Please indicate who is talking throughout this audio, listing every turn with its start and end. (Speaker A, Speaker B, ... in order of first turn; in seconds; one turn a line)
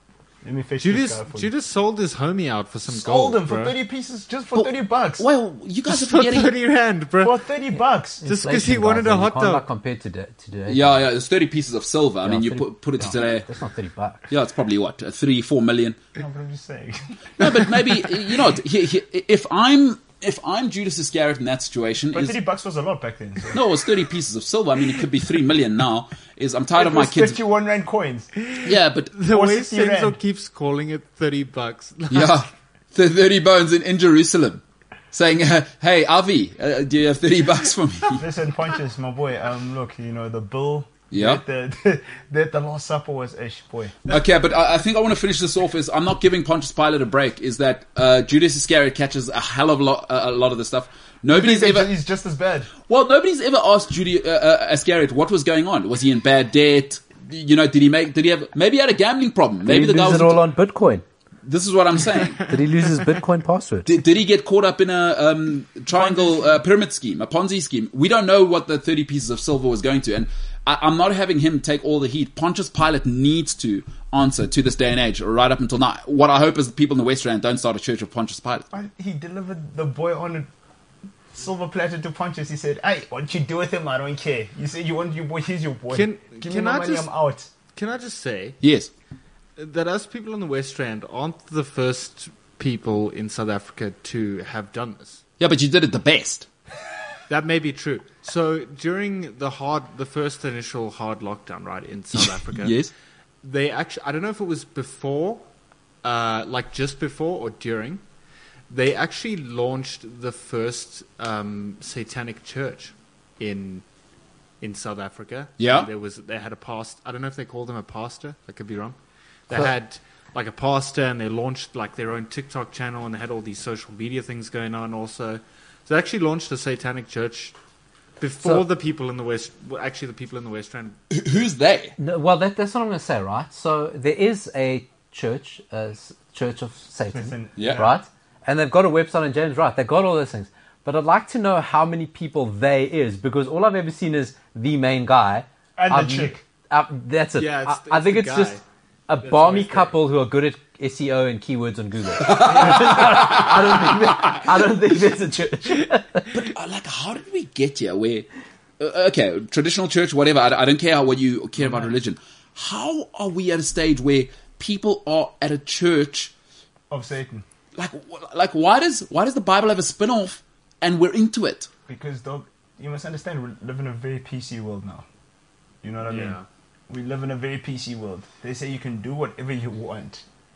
Speaker A: 0.4-1.5
Speaker B: 0.8-3.7
Speaker A: 2.9-5.2
Speaker C: 4.5-6.5
Speaker B: 5.9-7.4
Speaker A: 7.2-8.2
Speaker B: 8.2-9.6
Speaker D: 8.2-11.0
Speaker C: 10.7-13.4
Speaker D: 12.2-14.3
Speaker C: 14.3-16.0
Speaker A: 16.2-18.0
Speaker C: 17.4-22.4
Speaker A: 22.1-23.6
Speaker C: 23.5-27.4
Speaker A: 26.7-28.3
Speaker B: 28.5-32.5
Speaker C: 28.6-29.1
Speaker A: 29.3-30.2
Speaker C: 32.1-38.2
Speaker A: 38.2-44.2
Speaker C: 41.1-41.4
Speaker C: 44.1-51.9
Speaker A: 51.3-52.7
Speaker C: 52.9-60.4
Speaker D: 59.6-61.0
Speaker C: 61.4-62.5
Speaker D: 62.5-63.9
Speaker C: 63.9-78.7
Speaker A: 78.7-80.5
Speaker A: 81.3-87.5
Speaker B: 85.9-87.1
Speaker B: 87.7-88.6
Speaker C: 88.6-88.9
Speaker B: 89.6-95.2
Speaker C: 95.4-96.5
Speaker B: 97.3-102.8
Speaker C: 102.1-102.9
Speaker B: 103.4-105.4
Speaker B: 106.0-108.0
Speaker B: 108.7-113.8
Speaker B: 114.6-119.0
Speaker C: 115.6-115.9
Speaker B: 119.5-127.5
Speaker B: 128.2-131.0
Speaker C: 131.1-131.9
Speaker D: 132.0-156.3
Speaker A: 137.1-138.0
Speaker C: 137.6-137.8
Speaker A: 145.8-146.4
Speaker B: 147.3-148.6
Speaker B: 149.2-149.9
Speaker C: 152.2-154.4
Speaker C: 156.3-158.3
Speaker C: 158.8-166.3
Speaker A: 166.9-167.4
Speaker C: 167.8-171.7
Speaker A: 171.9-175.1
Speaker A: 175.8-176.4
Speaker B: 176.0-176.4
Speaker A: 176.9-180.2